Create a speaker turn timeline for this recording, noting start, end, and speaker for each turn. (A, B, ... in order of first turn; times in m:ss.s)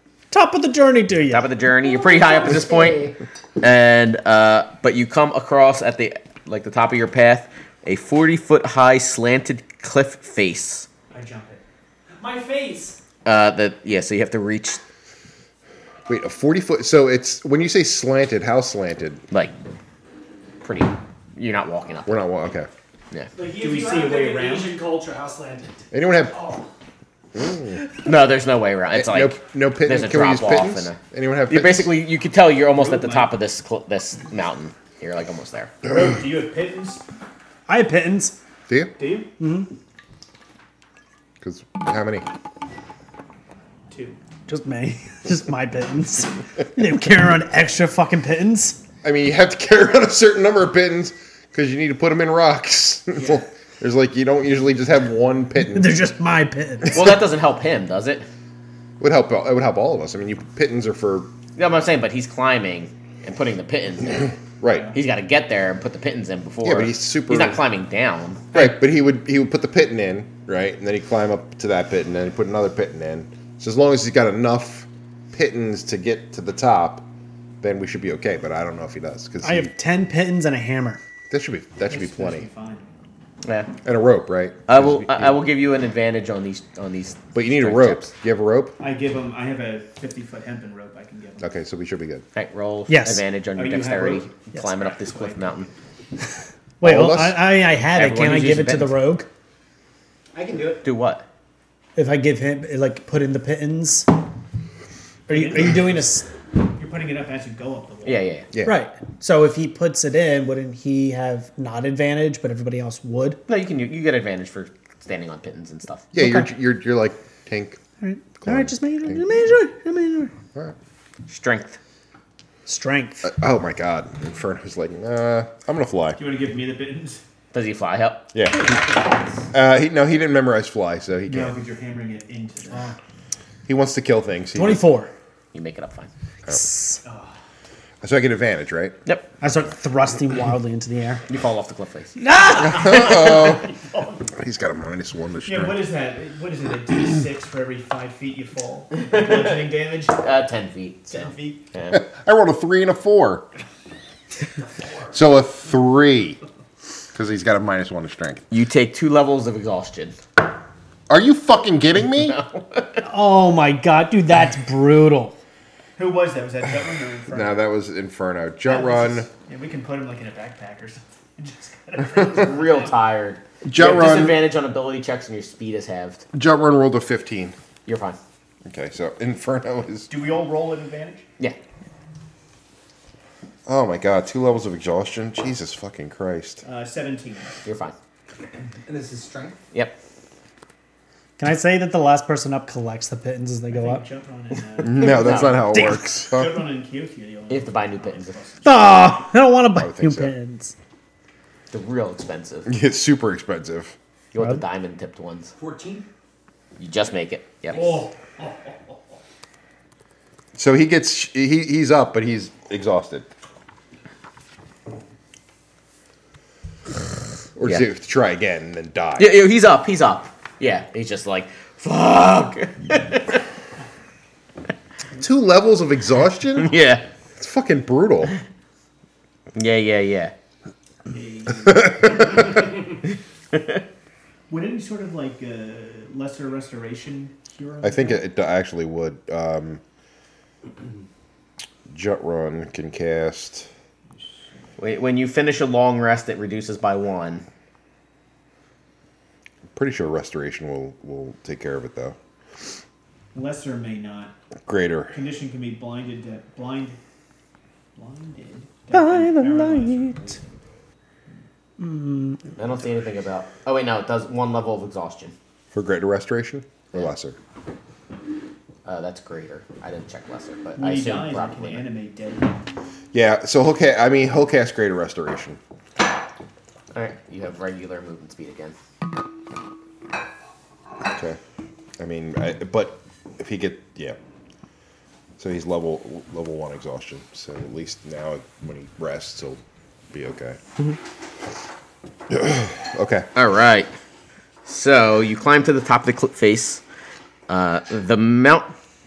0:00.3-0:01.5 A
0:01.3-0:10.9 B
0:01.8-0:03.1 C
0:11.1-0:11.6 D
0:12.2-0:13.0 A
0:13.2-0:14.8 B
0:16.1-0:19.2 E
0:20.6-0:22.3 B
0:22.1-0:22.7 E
0:23.4-0:26.7 A
0:23.6-0:24.8 D
0:25.9-0:26.4 E
0:27.4-0:27.8 E
0:28.0-0:31.0 B
0:28.9-0:31.9 E
0:31.5-0:35.7 B
0:32.8-0:33.3 D
0:35.8-0:37.0 D
0:37.7-0:38.4 A
0:38.7-0:39.0 E
0:39.0-0:39.3 D
0:39.4-0:39.7 A
0:41.4-0:42.2 E
0:43.9-0:44.2 D
0:44.5-0:48.8 A
0:49.0-0:56.0 E
0:53.2-0:53.4 D
0:55.7-0:57.2 A
0:56.9-0:58.3 B
0:59.0-1:01.3 E
1:01.6-1:04.3 B
1:04.6-1:04.9 E
1:04.9-1:08.6 B
1:06.6-1:07.6 E
1:08.5-1:17.1 E
1:17.6-1:19.7 E
1:19.4-1:21.0 A
1:21.3-1:22.5 E
1:21.9-1:22.8 D
1:23.4-1:23.7 B
1:23.8-1:25.4 E
1:24.7-1:28.1 B
1:27.3-1:28.8 E
1:28.8-1:31.5 D
1:31.4-1:32.2 E
1:32.3-1:35.7 B
1:32.9-1:33.2 A
1:33.6-1:35.7 D
1:36.8-1:37.4 E
1:36.8-1:39.3 A
1:37.9-1:39.0 B
1:40.3-1:40.8 C
1:40.8-1:41.2 B
1:42.0-1:44.1 A
1:45.3-1:46.1 D
1:45.3-1:46.3 A
1:46.7-1:48.3 D
1:48.0-1:48.5 B
1:48.5-1:48.8 E
1:48.6-1:53.4 A
1:53.5-1:56.1 B
1:56.1-1:57.8 E
1:56.2-1:56.5 A
1:58.0-2:00.3 A
1:58.4-1:59.2 E
2:01.3-2:01.8 B
2:02.7-2:03.3 A
2:03.2-2:06.2 E
2:06.2-2:07.2 D
2:07.5-2:08.3 B
2:08.3-2:08.8 E
2:08.5-2:09.5 C
2:09.5-2:11.6 E
2:11.3-2:12.9 D
2:12.7-2:13.0 C
2:13.7-2:14.9 E
2:14.6-2:15.1 A
2:15.5-2:16.1 B
2:16.5-2:17.0 A
2:17.0-2:17.4 D
2:18.0-2:19.0 E
2:19.4-2:21.2 A
2:21.3-2:22.2 B
2:22.2-2:23.4 A
2:22.5-2:24.2 D
2:22.6-2:23.7 E
2:24.3-2:25.8 E
2:25.5-2:30.2 D
2:29.1-2:32.0 B
2:31.1-2:31.6 D
2:31.9-2:33.5 E
2:35.1-2:36.4 E
2:37.1-2:38.4 E
2:38.5-2:40.2 B
2:41.1-2:42.4 E
2:42.2-2:42.9 B
2:43.0-2:45.4 A
2:46.0-2:47.5 D
2:47.3-2:49.3 E
2:48.6-2:53.0 D
2:52.2-2:56.2 B
2:53.6-2:54.4 E
2:56.3-2:57.6 E
2:57.9-2:58.2 B
2:58.7-3:00.1 E
3:00.1-3:01.2 D
3:03.7-3:06.6 E
3:06.6-3:07.5 D
3:07.6-3:08.0 B
3:08.7-3:09.6 C
3:09.7-3:10.0 B
3:11.4-3:14.0 A
3:13.7-3:19.2 D
3:14.8-3:16.5 E
3:15.0-3:15.5 B
3:15.7-3:16.2 A
3:17.5-3:18.4 B
3:18.6-3:20.7 A
3:19.8-3:20.3 E
3:21.7-3:22.7 B
3:22.7-3:24.0 E
3:24.3-3:25.5 B
3:24.4-3:24.6 A
3:25.6-3:26.1 C
3:26.8-3:28.1 B
3:27.7-3:29.0 C
3:30.6-3:33.3 E
3:37.6-3:39.3 E
3:39.2-3:43.4 B
3:45.2-3:46.8 E
3:46.6-3:47.1 B
3:47.4-3:48.4 E
3:49.6-3:50.3 B
3:51.1-3:53.1 D
3:54.5-3:58.2 D
3:57.8-3:59.8 E
4:01.9-4:03.7 E
4:04.8-4:07.4 B
4:09.8-4:12.2 E
4:13.3-4:14.3 D
4:14.7-4:15.1 E
4:15.1-4:17.0 D
4:18.0-4:20.4 D
4:18.9-4:20.3 A
4:21.8-4:22.4 A
4:22.6-4:25.4 B
4:25.7-4:27.4 E
4:28.8-4:31.9 B
4:30.8-4:32.7 D
4:33.1-4:35.6 E
4:36.9-4:38.8 B
4:41.1-4:41.4 E
4:42.0-4:44.2 E
4:45.4-4:49.6 E
4:50.1-4:50.6 E
4:52.3-4:53.3 E
4:53.4-4:53.9 B
4:54.7-4:56.8 B
4:57.5-4:58.7 B